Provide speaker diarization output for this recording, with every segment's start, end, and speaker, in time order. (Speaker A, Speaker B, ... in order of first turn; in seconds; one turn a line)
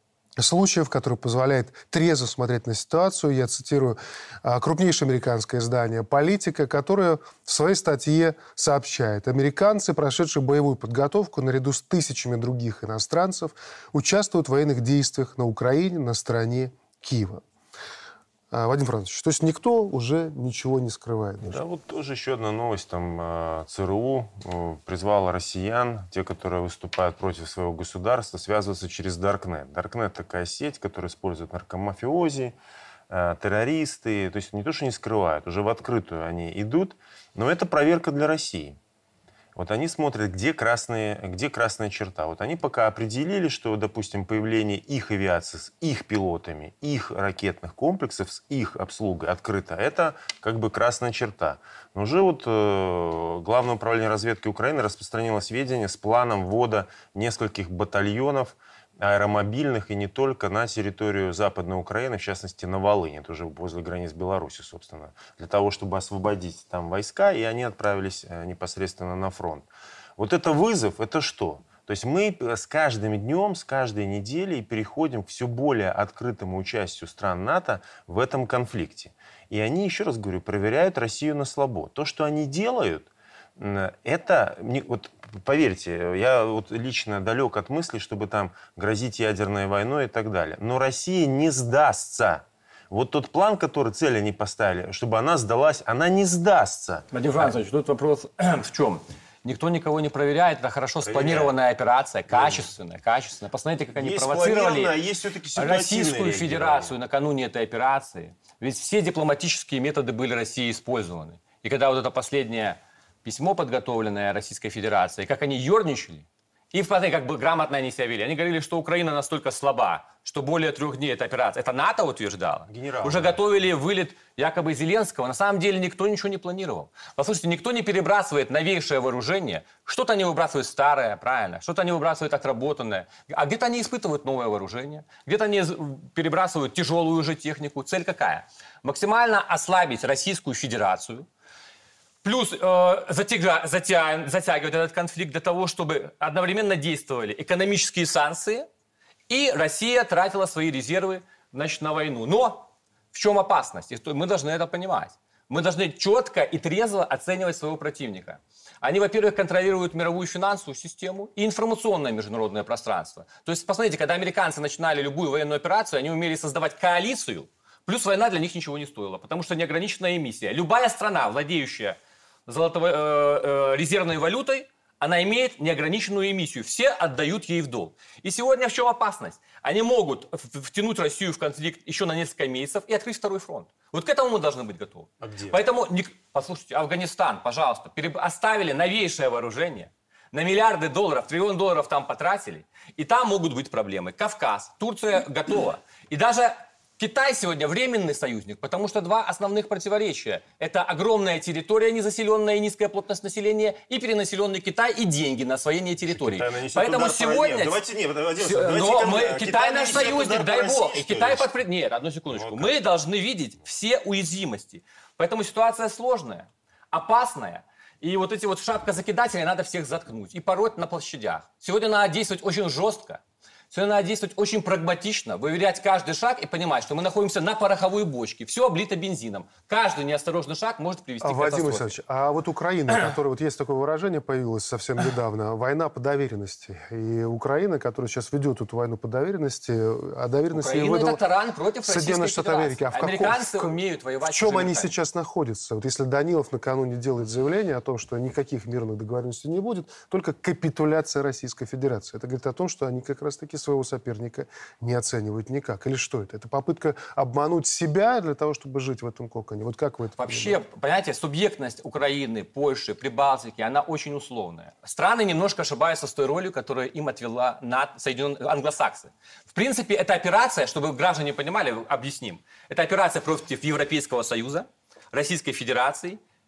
Speaker A: 0.4-17.4
Speaker A: 18.5-21.6
Speaker B: 21.4-32.6
Speaker B: 33.1-38.8
Speaker B: 39.6-97.4
Speaker C: 97.1-104.9
Speaker B: 101.1-101.5
Speaker B: 102.3-102.7
Speaker B: 104.0-107.0
Speaker C: 105.6-141.3
Speaker B: 122.7-123.4
Speaker C: 142.2-148.7
Speaker C: 149.3-207.8
Speaker B: 185.2-185.6
Speaker B: 206.1-211.5
Speaker C: 208.4-231.9
Speaker B: 212.3-212.8
Speaker A: 231.2-241.2
Speaker C: 240.5-244.9
Speaker A: 241.9-260.6
Speaker C: 260.2-276.2